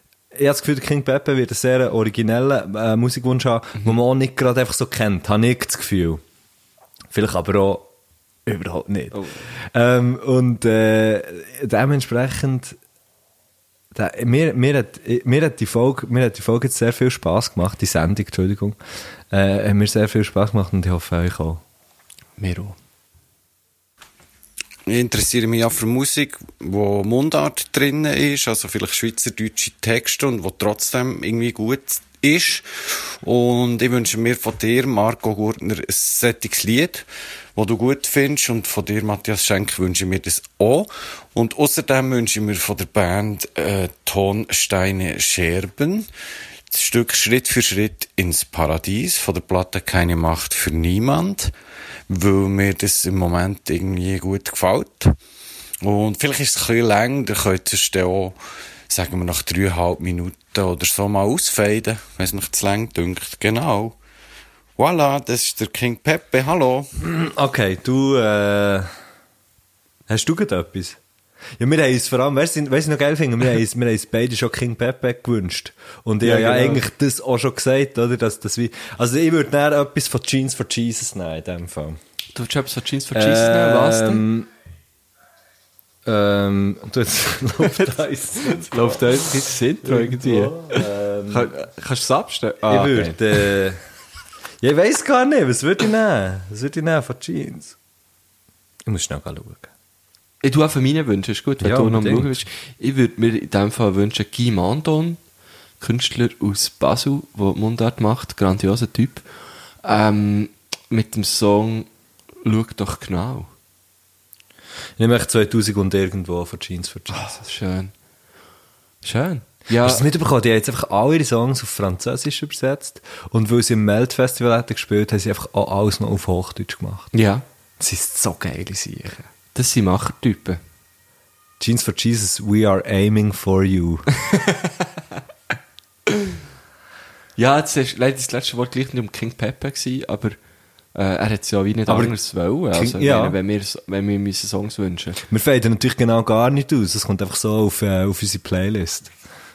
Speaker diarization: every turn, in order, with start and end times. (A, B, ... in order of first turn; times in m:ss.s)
0:00.3-0:06.2 A
0:07.1-0:07.9 A
0:08.5-0:12.8 A
0:09.1-0:09.4 B
0:13.9-0:18.8 A
0:19.3-0:21.6 A
0:22.4-0:22.8 B
0:24.9-0:46.1 C
0:46.7-0:51.5 C
0:52.1-0:55.2 C
0:55.8-0:58.4 C
0:58.9-1:04.0 C
1:04.8-1:06.9 C
1:07.0-1:08.9 A
1:10.1-1:11.0 A
1:11.6-1:22.0 A
1:16.2-1:16.8 B
1:22.4-1:24.3 B
1:23.1-1:24.5 A
1:26.0-1:29.3 A
1:28.4-1:33.5 B
1:29.8-1:31.5 A
1:32.7-1:33.8 A
1:34.6-1:37.8 A
1:38.9-1:39.7 A
1:40.4-1:45.2 B
1:41.6-1:42.4 A
1:45.8-1:49.2 B
1:49.8-1:51.9 B
1:52.4-1:53.5 B
1:55.0-1:57.4 A
1:57.1-1:57.9 B
1:59.0-2:00.1 B
1:59.8-2:07.1 A
2:07.1-2:07.4 B
2:07.8-2:09.3 A
2:09.5-2:10.6 B
2:11.6-2:14.1 A
2:14.2-2:14.7 B
2:16.1-2:16.3 B
2:17.4-2:20.4 B
2:21.0-2:25.2 B
2:21.9-2:22.2 A
2:22.7-2:23.4 A
2:25.3-2:29.1 A